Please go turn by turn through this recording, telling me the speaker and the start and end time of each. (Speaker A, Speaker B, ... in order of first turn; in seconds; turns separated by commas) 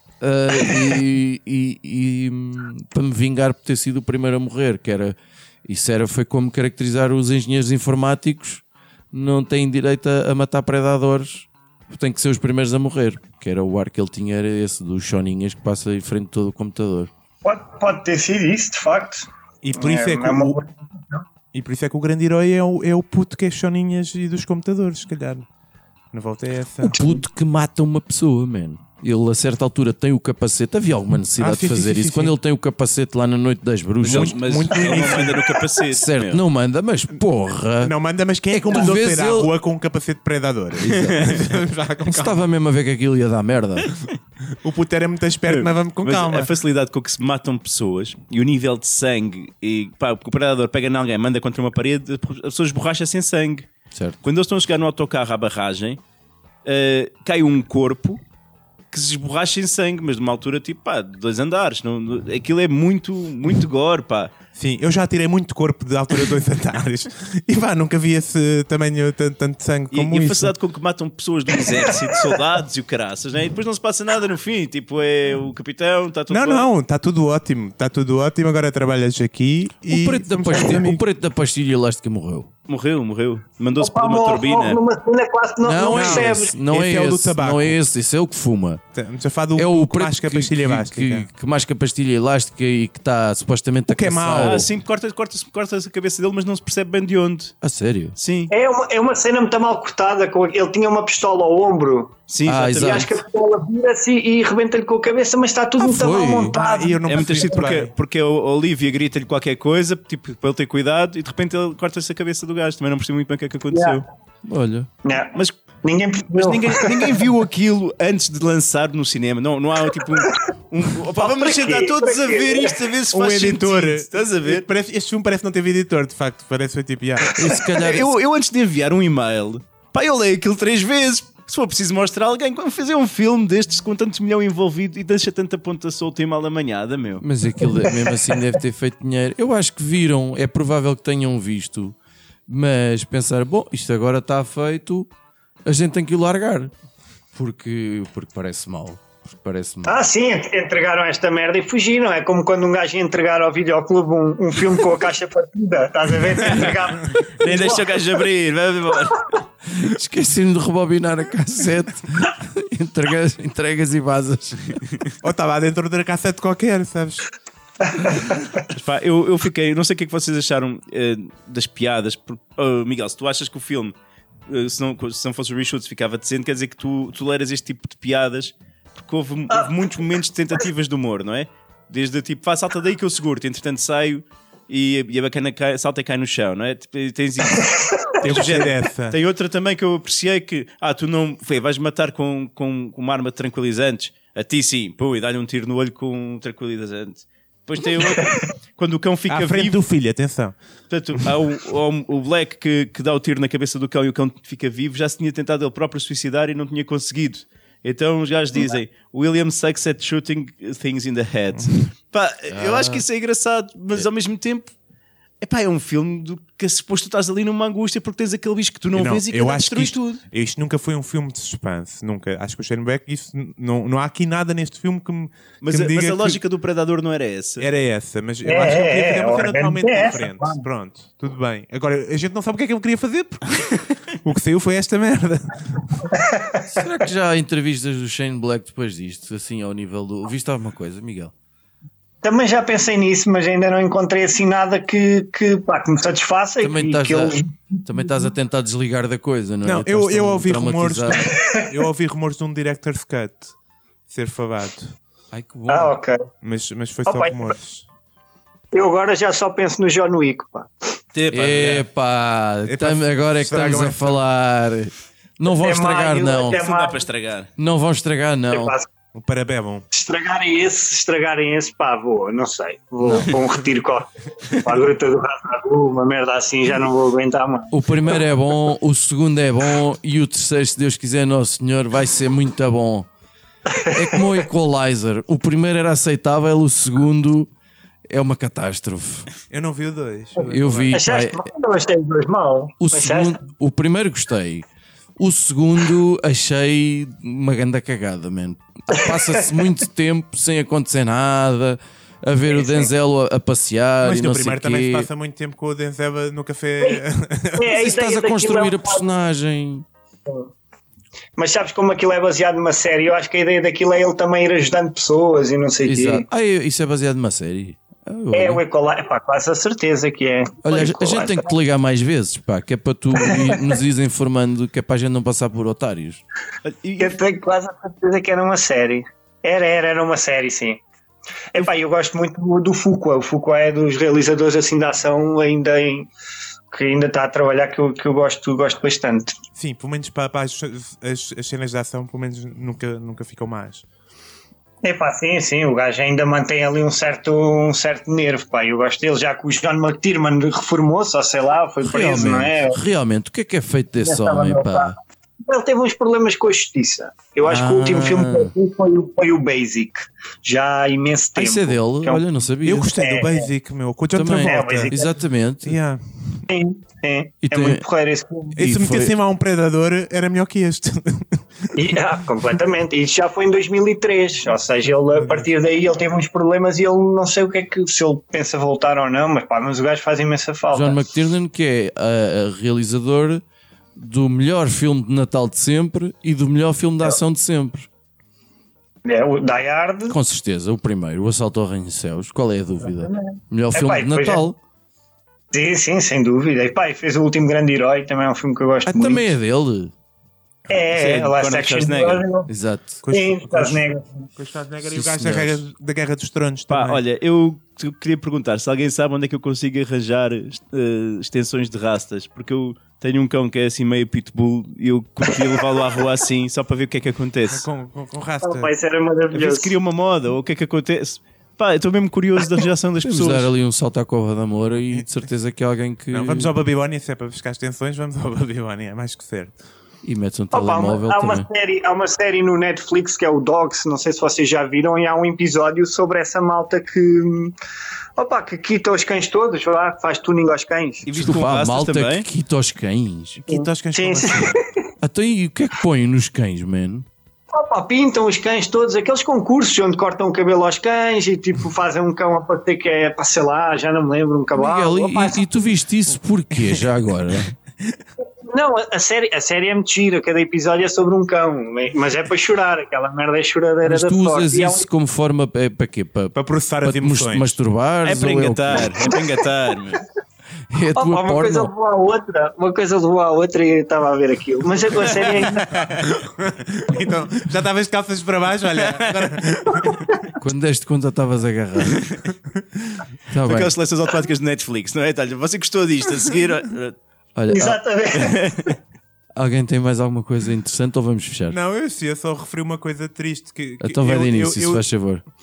Speaker A: 0.2-17.1, Speaker B: 17.4-21.2, Speaker C: 19.6-20.6, Speaker C: 21.5-25.4, Speaker C: 26.1-27.2, Speaker A: 26.8-34.4, Speaker C: 31.4-32.4, Speaker C: 34.0-35.4, Speaker D: 34.0-36.4, Speaker B: 34.7-35.0, Speaker A: 35.9-37.9, Speaker C: 37.8-42.4, Speaker A: 38.5-39.5, Speaker A: 40.8-41.3, Speaker A: 42.0-43.9, Speaker C: 44.6-46.5, Speaker D: 45.5-53.6, Speaker A: 53.9-54.2, Speaker D: 54.2-56.0, Speaker D: 56.6-58.2, Speaker D: 58.9-64.3, Speaker C: 64.5-70.5, Speaker D: 69.9-76.7, Speaker C: 76.3-81.0, Speaker A: 79.9-82.5, Speaker D: 82.7-84.8, Speaker B: 83.8-86.5, Speaker A: 85.6-88.8, Speaker C: 85.9-87.8, Speaker C: 88.9-91.3, Speaker A: 89.5-94.7, Speaker C: 93.9-94.6, Speaker D: 94.4-97.5, Speaker A: 97.6-98.2, Speaker D: 98.2-98.5, Speaker B: 98.5-102.1, Speaker D: 102.3-103.1, Speaker A: 102.5-103.1, Speaker B: 102.7-107.7, Speaker A: 105.8-106.6, Speaker C: 106.5-107.9, Speaker D: 107.1-114.0, Speaker B: 113.7-114.0, Speaker A: 114.4-114.9, Speaker B: 115.0-117.2, Speaker D: 116.3-124.7, Speaker B: 121.2-122.9, Speaker C: 123.1-127.4, Speaker A: 127.2-128.1, Speaker D: 127.8-137.2, Speaker A: 137.2-141.9, Speaker A: 142.5-145.1, Speaker A: 145.7-146.7, Speaker A: 147.3-150.0, Speaker B: 149.8-157.9, Speaker D: 156.4-159.3, Speaker A: 159.7-164.8, Speaker C: 165.2-167.2, Speaker B: 167.9-168.6, Speaker D: 168.7-173.9, Speaker D: 174.5-199.8, Speaker C: 188.2-189.2, Speaker C: 199.3-200.6, Speaker D: 200.9-214.7, Speaker A: 212.5-213.0, Speaker D: 215.4-220.2, Speaker C: 218.9-226.4, Speaker D: 225.6-227.7, Speaker C: 227.6-233.6, Speaker B: 228.4-230.6, Speaker C: 234.2-236.0, Speaker B: 236.1-236.5, Speaker A: 236.7-241.3, Speaker B: 242.2-247.9, Speaker A: 246.6-251.3, Speaker C: 249.6-253.5, Speaker B: 251.1-251.7, Speaker C: 254.1-254.9, Speaker A: 255.3-256.0, Speaker B: 255.7-256.3, Speaker C: 256.4-257.9, Speaker B: 257.1-257.5, Speaker B: 258.7-260.7, Speaker D: 261.1-261.9, Speaker A: 261.3-266.6, Speaker C: 262.6-264.2, Speaker B: 265.5-267.0, Speaker D: 266.5-267.5, Speaker A: 267.6-268.7, Speaker B: 268.5-268.9, Speaker C: 269.1-269.8, Speaker B: 269.9-278.2, Speaker A: 273.0-273.4, Speaker A: 277.7-283.1, Speaker B: 283.7-284.3, Speaker A: 283.9-287.5, Speaker A: 288.1-289.3, Speaker C: 289.5-290.9, Speaker A: 290.4-291.4, Speaker B: 290.9-293.4, Speaker A: 292.8-294.7, Speaker A: 295.2-305.1, Speaker B: 299.0-299.3, Speaker B: 302.4-302.9, Speaker C: 304.0-307.8, Speaker B: 307.6-309.0, Speaker A: 307.7-309.8, Speaker B: 311.4-316.3, Speaker A: 315.9-318.6, Speaker B: 318.3-321.4, Speaker A: 320.6-326.2, Speaker B: 323.2-323.6, Speaker D: 326.6-327.2, Speaker B: 327.0-330.8, Speaker B: 331.5-336.1, Speaker B: 336.7-339.3, Speaker C: 339.5-343.8, Speaker B: 344.8-352.8, Speaker A: 351.8-354.9, Speaker B: 354.0-354.9, Speaker B: 355.5-362.2, Speaker A: 357.4-358.5, Speaker A: 361.4-362.9, Speaker C: 362.6-364.9, Speaker B: 363.0-363.5, Speaker A: 364.1-365.8, Speaker B: 364.4-365.1, Speaker C: 365.6-366.4, Speaker B: 366.5-368.6, Speaker A: 367.4-367.8, Speaker A: 368.5-369.1, Speaker C: 368.6-371.8, Speaker B: 371.7-381.1, Speaker C: 375.1-375.5, Speaker A: 380.7-383.4, Speaker A: 383.9-387.9, Speaker B: 389.0-390.1, Speaker A: 390.1-394.6, Speaker B: 392.8-394.4, Speaker B: 395.5-399.3, Speaker A: 398.9-399.9, Speaker B: 400.7-402.5, Speaker D: 400.9-402.2, Speaker A: 402.5-403.0, Speaker C: 403.0-407.0, Speaker B: 403.1-404.3, Speaker A: 404.8-405.6, Speaker D: 406.7-417.7, Speaker C: 417.5-418.7, Speaker B: 418.4-419.8, Speaker D: 419.3-423.5, Speaker A: 423.0-426.5, Speaker C: 426.1-429.5, Speaker A: 430.0-431.4, Speaker B: 430.5-437.5, Speaker B: 438.2-441.1, Speaker D: 441.0-442.3, Speaker A: 441.1-443.4, Speaker C: 443.4-444.6, Speaker B: 443.5-444.6, Speaker A: 445.0-447.1, Speaker B: 447.5-455.4, Speaker A: 454.5-457.5, Speaker B: 458.5-464.9, Speaker A: 463.8-469.0, Speaker C: 466.3-467.6, Speaker D: 468.0-470.0, Speaker A: 470.7-471.7, Speaker B: 470.9-475.7, Speaker C: 475.3-480.0, Speaker D: 478.9-479.2, Speaker A: 480.4-482.0, Speaker D: 481.9-482.2, Speaker A: 483.3-483.7, Speaker D: 483.4-487.0, Speaker A: 487.4-487.8, Speaker B: 487.5-488.5, Speaker D: 488.1-488.8, Speaker A: 489.4-491.6, Speaker C: 491.5-494.8, Speaker A: 493.8-495.2